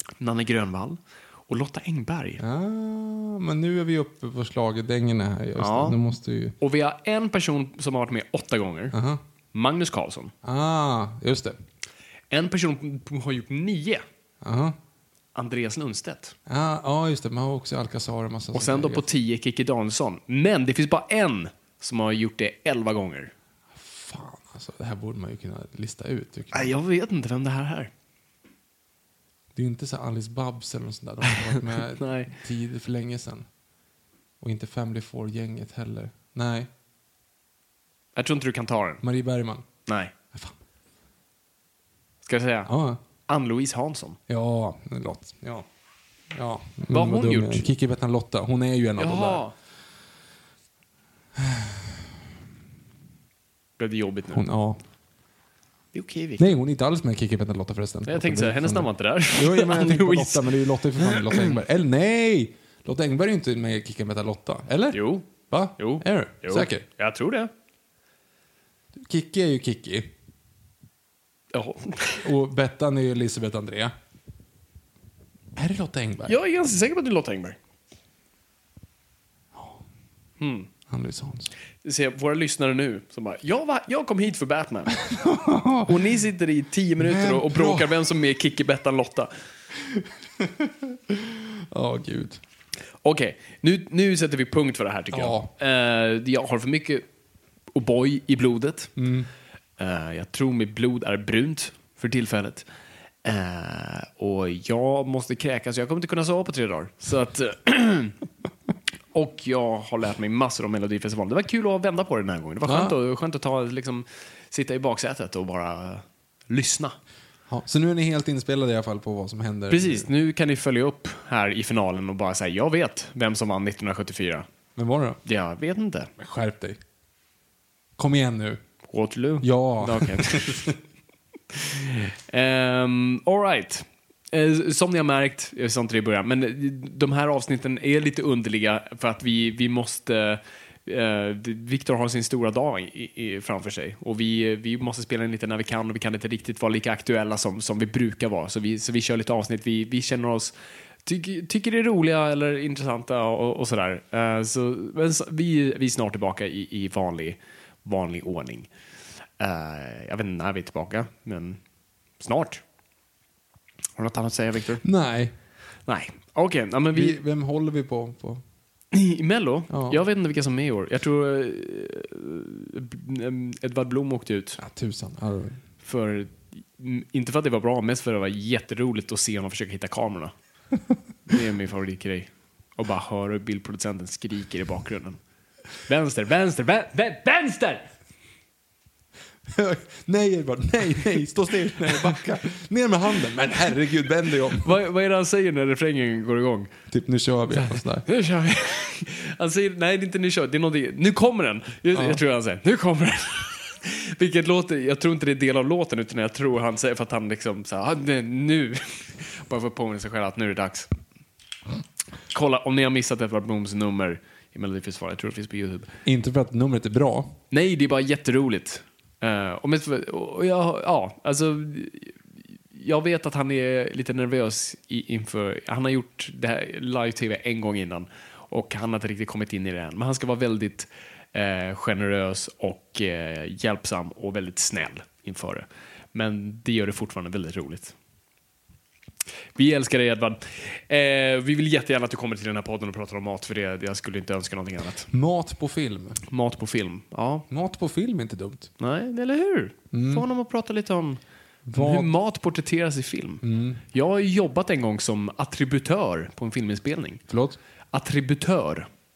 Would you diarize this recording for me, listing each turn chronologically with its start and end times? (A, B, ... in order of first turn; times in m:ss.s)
0:00.2-0:02.4 A
0:02.4-0:06.6 B
0:05.6-0:06.0 A
0:06.6-0:09.0 A
0:08.9-0:09.2 B
0:09.5-0:10.3 A
0:10.4-0:11.6 B
0:12.3-0:14.0 A
0:14.4-0:14.8 B
0:15.4-0:16.4 A
0:16.5-0:19.1 B
0:18.5-0:23.3 A
0:23.7-0:26.7 B
0:26.5-0:27.9 A
0:29.6-0:33.5 B
0:31.7-0:32.4 A
0:34.4-0:36.7 B
0:38.2-0:39.0 A
0:39.0-0:39.7 B
0:39.9-0:40.1 A
0:42.2-0:42.7 A
0:42.7-0:43.0 B
0:43.3-0:44.2 A
0:44.3-0:45.7 B
0:46.3-0:49.4 B
0:46.9-0:47.7 A
0:49.0-0:49.5 A
0:51.4-0:51.8 B
0:53.8-0:54.5 A
0:54.3-0:54.8 B
0:55.9-0:56.5 A
0:56.4-1:06.9 B
0:58.1-1:01.6 A
1:04.9-1:07.5 A
1:09.0-1:10.1 B
1:11.5-1:12.3 A
1:12.2-1:13.9 B
1:15.6-1:16.4 B
1:16.3-1:17.6 A
1:19.5-1:19.8 B
1:20.4-1:20.7 A
1:20.9-1:21.5 B
1:21.8-1:25.0 A
1:25.0-1:26.0 B
1:25.8-1:29.3 A
1:27.0-1:28.0 B
1:29.8-1:32.4 B
1:33.0-1:37.0 A
1:35.1-1:35.5 B
1:37.7-1:38.9 A
1:39.0-1:39.3 B
1:39.8-1:42.7 A
1:43.2-1:48.2 A
1:49.1-1:57.0 A
1:52.6-1:53.0 B
1:57.5-2:00.1 B
1:59.7-2:04.5 A
2:04.8-2:05.2 B
2:05.2-2:06.1 A
2:06.2-2:06.8 B
2:08.0-2:08.6 B
2:08.9-2:10.8 A
2:09.4-2:10.8 B
2:11.5-2:30.5 A
2:31.0-2:38.7 A
2:39.4-2:41.6 A
2:42.2-2:42.6 A
2:44.0-2:44.8 A
2:44.8-2:45.3 B
2:45.9-2:47.2 A
2:46.9-2:48.4 B
2:48.9-2:54.6 A
2:49.7-2:50.0 B
2:54.6-2:55.6 B
2:55.8-3:00.3 A
3:01.3-3:05.2 A
3:05.8-3:07.9 A
3:09.5-3:14.8 B
3:14.6-3:16.7 A
3:16.9-3:18.0 B
3:17.5-3:30.9 A
3:21.9-3:22.2 B
3:32.3-3:35.9 A
3:36.0-3:37.3 B
3:37.5-3:42.2 A
3:42.7-3:58.0 A
3:59.6-4:05.1 A
4:05.1-4:06.2 B
4:06.3-4:07.5 A
4:07.5-4:08.7 B
4:08.8-4:11.2 A
4:09.9-4:10.3 B
4:11.7-4:12.1 B
4:11.7-4:17.2 A
4:13.4-4:13.8 B
4:17.3-4:17.6 B
4:17.9-4:18.9 A